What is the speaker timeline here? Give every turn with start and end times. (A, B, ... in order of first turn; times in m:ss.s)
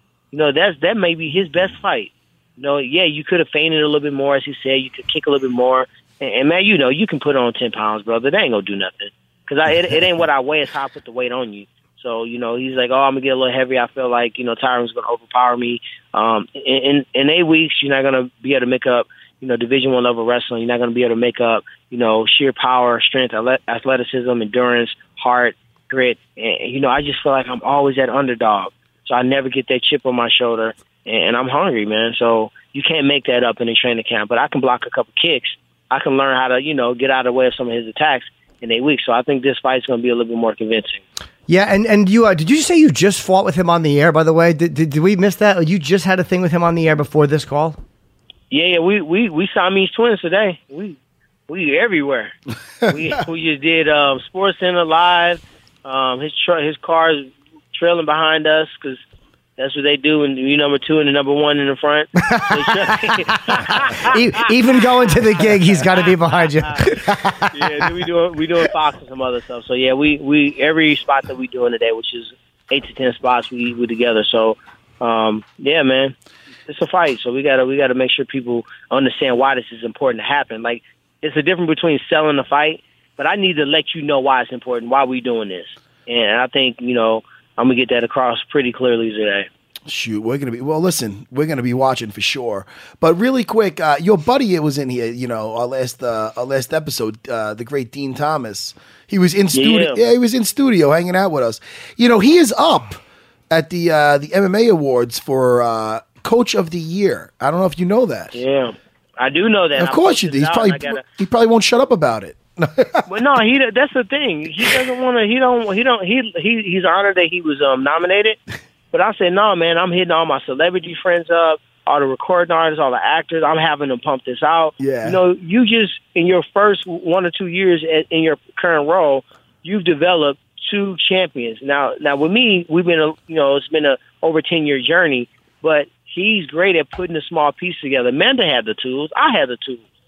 0:00.3-0:41.0 A
0:41.5-0:47.8 B
0:48.5-0:52.3 A
0:52.9-0:59.0 A
0:59.6-1:04.5 A
1:02.2-1:03.1 B
1:04.0-1:07.5 B
1:07.5-1:16.2 A
1:16.7-1:29.5 A
1:29.9-1:48.4 C
1:39.5-1:40.0 A
1:48.3-1:51.0 A
1:49.8-1:53.1 C
1:53.1-1:58.4 A
1:58.9-2:19.8 A
2:04.8-2:05.2 C